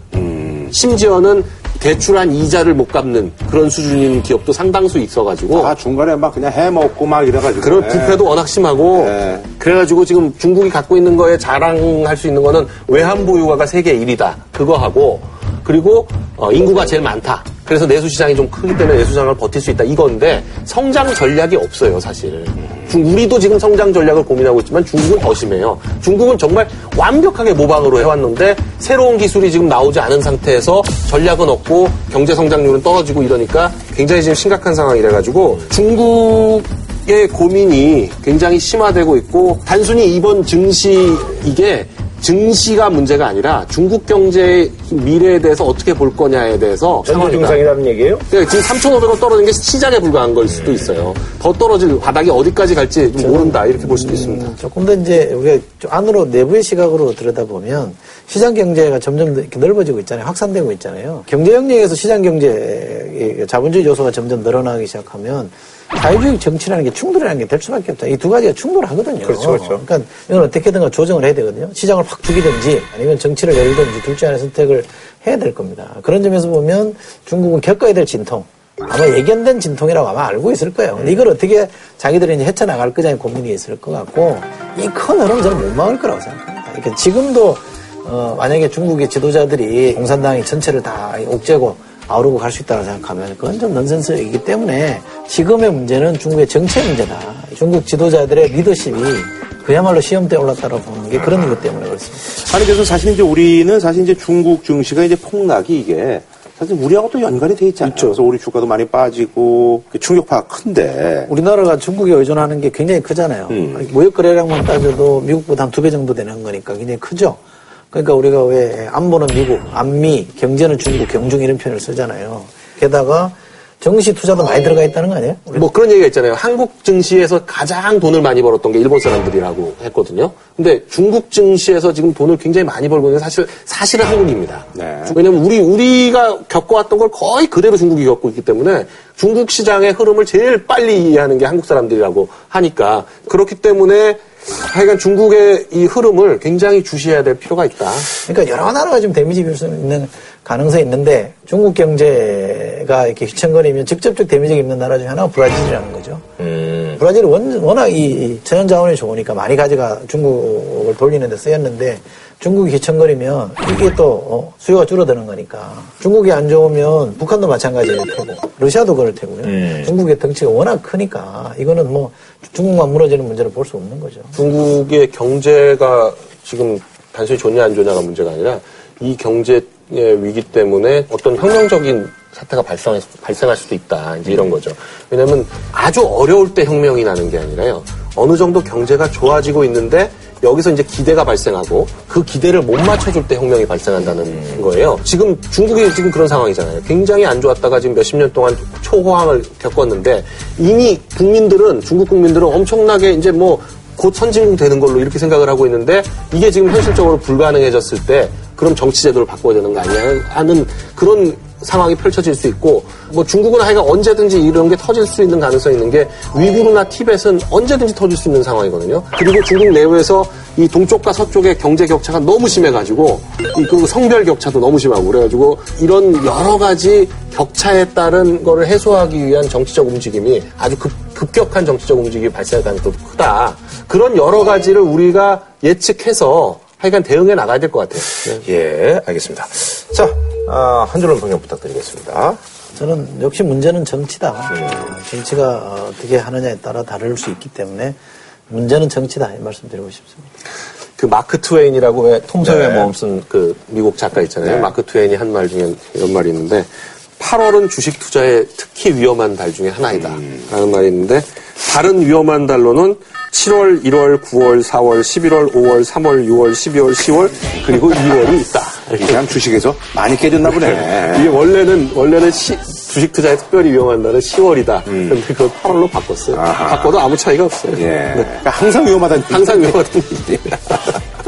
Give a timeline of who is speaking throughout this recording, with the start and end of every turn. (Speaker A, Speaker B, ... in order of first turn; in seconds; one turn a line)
Speaker A: 0.1-0.7
Speaker B: 0.7-5.7
Speaker A: 5.5-8.2
Speaker B: 7.6-47.6
Speaker A: 8.9-9.5
Speaker A: 47.0-48.2
Speaker B: 48.3-54.5
Speaker A: 50.5-51.0
Speaker C: 53.2-102.2
Speaker A: 69.2-69.8
Speaker A: 80.9-81.2
Speaker A: 101.1-101.6
Speaker A: 102.3-111.3
Speaker C: 111.3-117.4
Speaker A: 113.5-113.9
Speaker C: 117.9-125.7
Speaker B: 125.5-148.1
Speaker A: 134.7-135.2
Speaker C: 148.3-156.3
Speaker A: 156.4-157.0
Speaker C: 157.0-174.3
Speaker A: 169.4-169.9
Speaker B: 174.3-238.4
Speaker A: 184.2-184.6
Speaker A: 194.0-194.7
Speaker A: 238.1-242.4
Speaker C: 242.7-248.0
Speaker A: 244.5-244.8
Speaker C: 248.5-250.2
Speaker B: 251.0-256.7
Speaker A: 252.4-252.9
Speaker A: 254.4-254.7
Speaker B: 257.2-269.2
Speaker A: 259.9-260.5
Speaker A: 267.6-268.0
Speaker A: 269.0-271.3
Speaker B: 270.6-278.4
Speaker A: 274.9-275.2
Speaker A: 276.3-277.0
Speaker A: 277.7-280.9
Speaker B: 279.3-280.8